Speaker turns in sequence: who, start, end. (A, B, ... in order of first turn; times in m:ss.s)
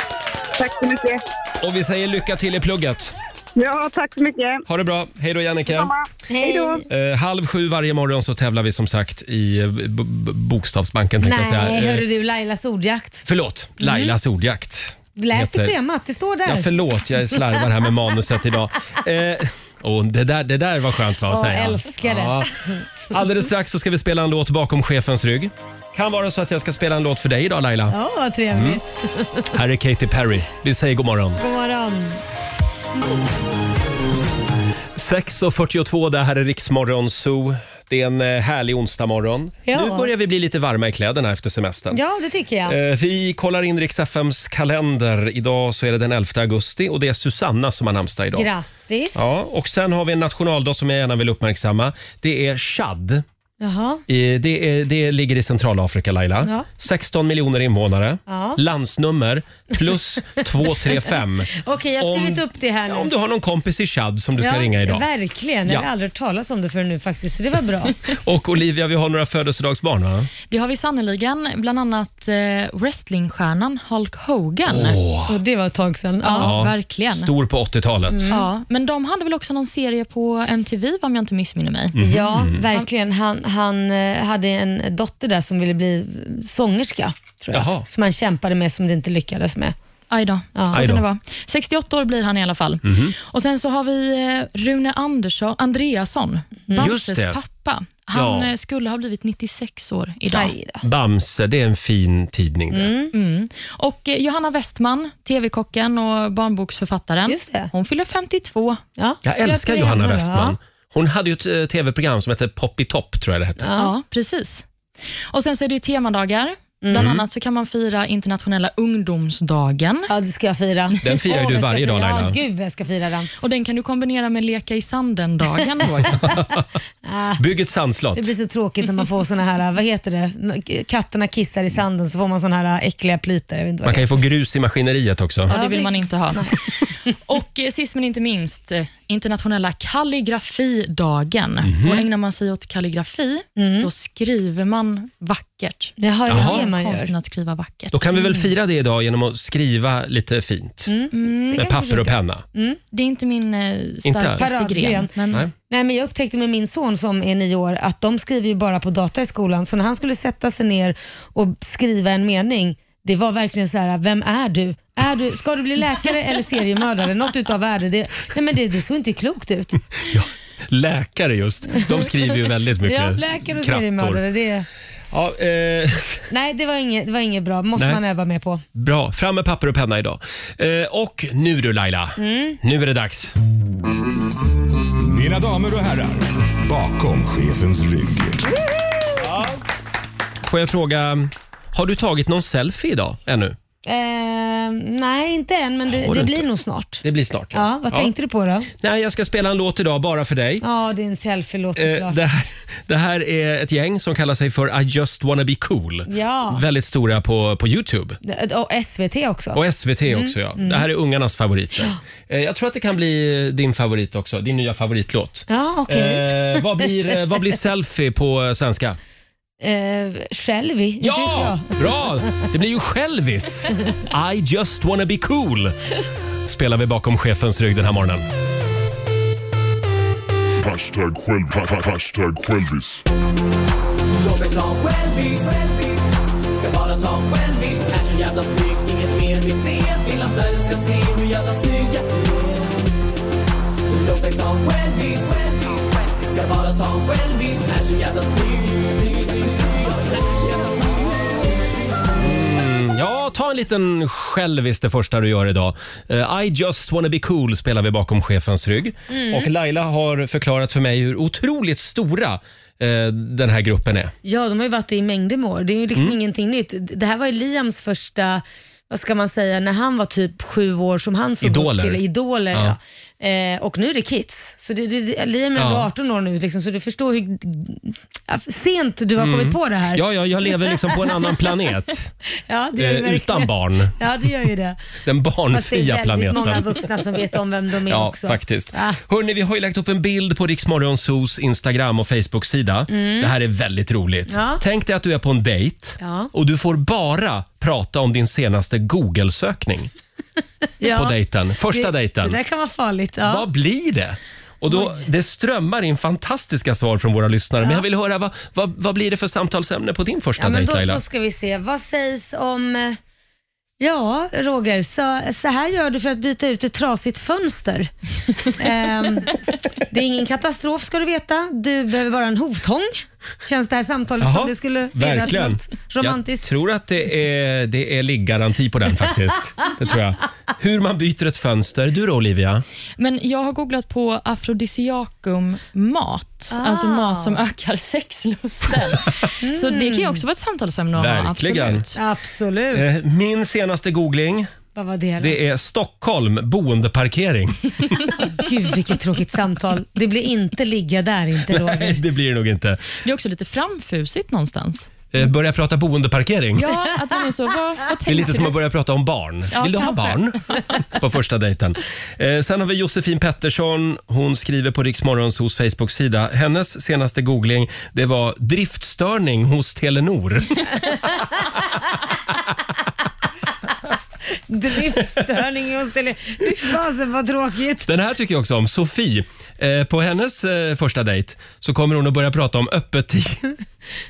0:00.6-0:01.2 A
0:01.6-0:03.1 B
0:03.6-0:04.6 A
0:04.6-0:05.9 B
0:05.6-0:06.8 A
0:06.3-0:06.8 C
0:06.9-0:12.0 B
0:11.2-0:13.2 C
0:13.2-0:15.7 B
0:13.8-0:14.1 C
0:15.2-0:16.7 C
0:16.4-0:22.5 B
0:21.3-0:22.8 C
0:23.1-0:28.0 B
0:27.9-0:29.5 C
0:28.5-0:28.8 B
0:29.5-0:31.4 B
0:31.4-0:32.2 C
0:35.0-0:42.0 B
0:39.6-0:40.1 C
0:41.9-0:42.8 C
0:42.6-0:48.5 B
0:48.3-0:49.3 C
0:49.1-0:53.2 B
0:53.6-0:54.0 C
0:54.1-1:05.0 B
0:58.3-0:58.6 C
1:01.5-1:03.1 C
1:04.4-1:08.0 C
1:08.1-1:10.3 B
1:10.5-1:15.0 D
1:14.6-1:15.3 B
1:15.3-1:16.6 C
1:16.2-1:17.3 D
1:16.4-1:18.3 B
1:18.1-1:18.4 C
1:18.3-1:22.0 D
1:21.9-1:22.6 B
1:22.0-1:29.7 C
1:27.5-1:27.8 B
1:30.1-1:40.5 D
1:30.5-1:30.8 C
1:30.7-1:31.0 B
1:32.8-1:33.1 B
1:36.8-1:37.4 B
1:38.1-1:38.5 B
1:40.3-1:40.8 C
1:40.8-1:42.9 B
1:42.7-1:43.1 C
1:43.1-1:48.8 D
1:47.3-1:47.7 C
1:49.0-1:50.6 C
1:49.2-1:53.6 B
1:53.6-1:53.9 C
1:53.8-1:54.6 D
1:55.3-2:00.1 D
1:56.8-1:57.1 C
1:56.9-1:57.2 B
2:00.1-2:03.3 C
2:01.0-2:02.4 B
2:03.4-2:06.2 D
2:06.0-2:06.6 B
2:07.0-2:07.4 C
2:07.4-2:08.3 B
2:08.2-2:14.0 C
2:13.8-2:15.5 B
2:15.5-2:16.5 D
2:15.5-2:16.5 C
2:17.3-2:27.9 D
2:21.6-2:22.0 B
2:23.6-2:23.9 C
2:26.0-2:27.1 C
2:26.3-2:26.6 B
2:27.9-2:30.9 B
2:28.1-2:28.5 C
2:30.9-2:31.8 C
2:31.1-2:32.1 D
2:31.6-2:32.4 B
2:32.5-2:32.8 C
2:32.9-2:35.5 D
2:34.0-2:34.4 B
2:34.4-2:35.1 C
2:35.7-2:49.8 C
2:50.1-2:54.2 B
2:51.8-2:52.0 C
2:52.8-2:54.6 C
2:55.1-2:56.2 B
2:56.3-2:58.6 C
2:58.7-3:03.3 B
3:02.2-3:02.6 C
3:05.0-3:08.5 E
3:09.2-3:09.6 B
3:10.4-3:13.6 B
3:13.8-3:18.7 C
3:15.9-3:16.4 B
3:17.0-3:18.1 B
3:18.8-3:20.6 B
3:20.6-3:22.2 C
3:21.8-3:28.2 B
3:26.1-3:26.6 C
3:28.2-3:30.8 C
3:29.5-3:39.0 B
3:35.5-3:36.8 C
3:39.6-3:41.7 C
3:41.0-3:45.7 B
3:46.4-3:48.2 B
3:50.6-3:53.0 F
3:54.1-4:02.7 G
4:03.9-4:11.1 G
4:12.2-4:24.1 B
4:19.1-4:19.5 C
4:24.2-4:40.0 C
4:31.4-4:32.0 B
4:32.5-4:32.8 B
4:35.6-4:35.9 B
4:39.2-4:42.1 B
4:42.5-4:44.8 C
4:42.8-4:44.0 B
4:45.0-4:46.9 B
4:45.5-4:49.0 C
4:47.9-4:59.9 B
4:52.9-4:53.3 C
4:54.3-4:54.6 C
4:56.0-4:56.3 C
5:00.8-5:01.1 C
5:00.9-5:02.4 B
5:01.7-5:03.4 C
5:03.2-5:11.0 B
5:10.4-5:13.0 C
5:13.8-5:17.9 C
5:18.4-5:19.4 C
5:19.9-5:26.5 C
5:24.2-5:32.6 B
5:33.0-5:42.0 D
5:36.5-5:37.4 C
5:39.4-5:40.2 C
5:41.0-5:41.9 B
5:41.9-5:43.0 C
5:42.7-5:44.5 B
5:44.7-5:45.4 C
5:45.2-5:48.0 B
5:48.4-5:52.0 C
5:51.5-5:52.9 B
5:53.0-5:55.1 D
5:55.1-5:56.6 B
5:56.6-5:56.9 C
5:56.6-5:58.5 D
5:58.1-6:00.4 B
5:59.5-6:00.4 D
6:00.9-6:10.8 B
6:14.5-6:17.9 C
6:17.8-6:23.5 B